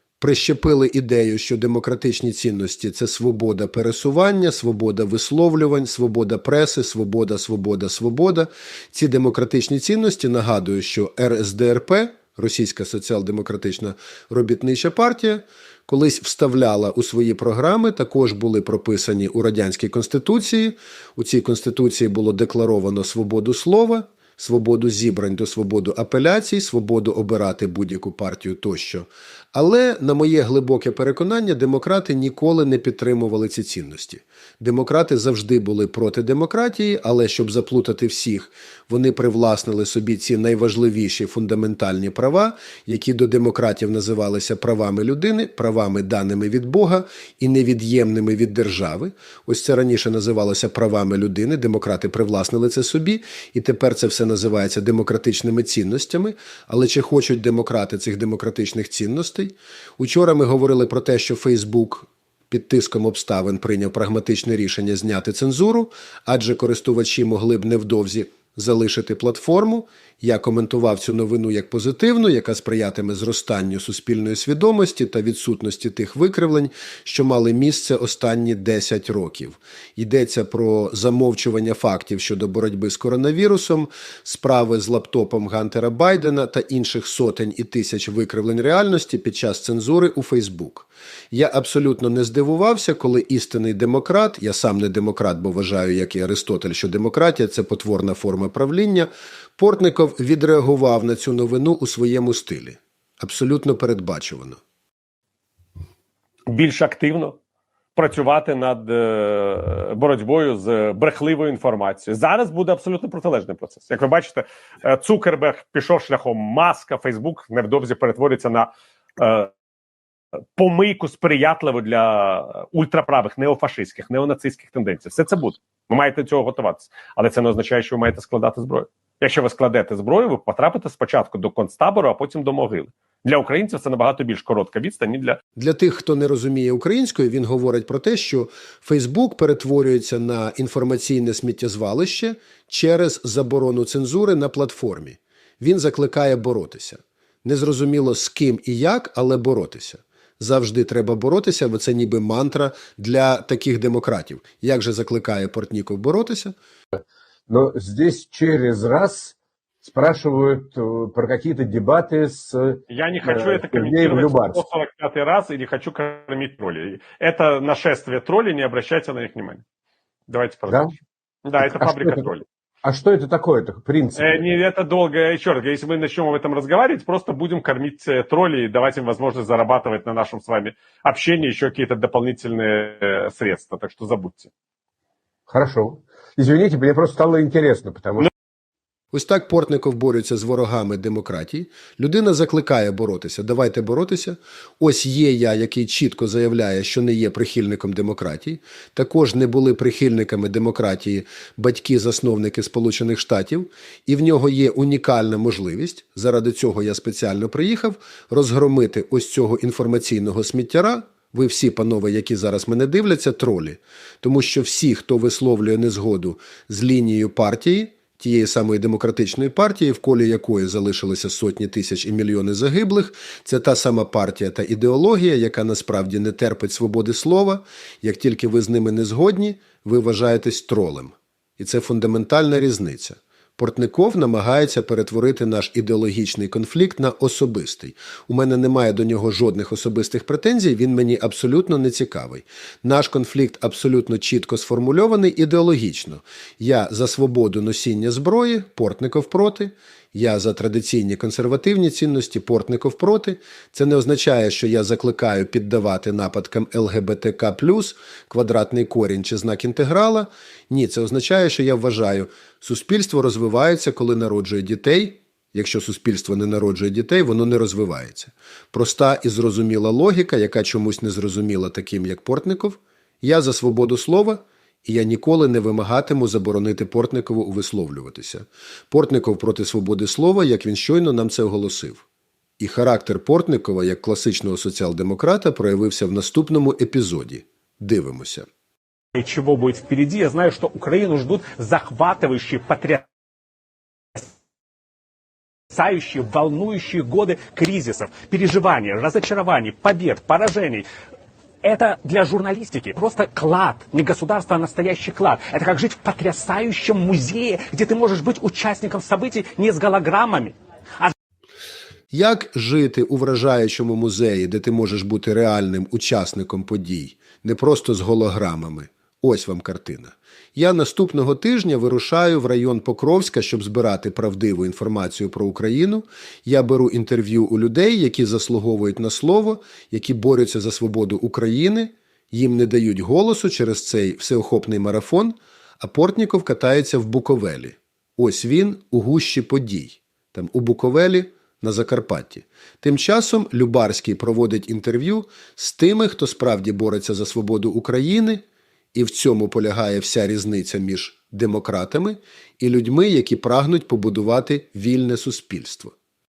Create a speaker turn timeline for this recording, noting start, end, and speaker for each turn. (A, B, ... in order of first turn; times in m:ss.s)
0:00.2-1:44.6 A
1:46.5-1:47.4 B
1:48.0-1:59.5 B
2:00.6-2:15.4 B
2:15.6-2:36.6 A
2:37.5-2:44.6 C
2:42.9-2:49.6 B
2:50.3-2:50.9 B
2:50.7-2:50.9 C
2:51.4-2:52.4 B
2:51.6-2:52.2 C
2:52.8-2:54.6 C
2:54.2-3:04.5 B
3:05.5-3:08.3 C
3:09.1-4:42.0 A
4:42.6-4:48.5 A
4:49.1-4:53.1 D
4:55.7-5:00.9 D
5:01.6-5:11.1 D
5:12.1-5:48.4 A
5:48.9-5:55.9 A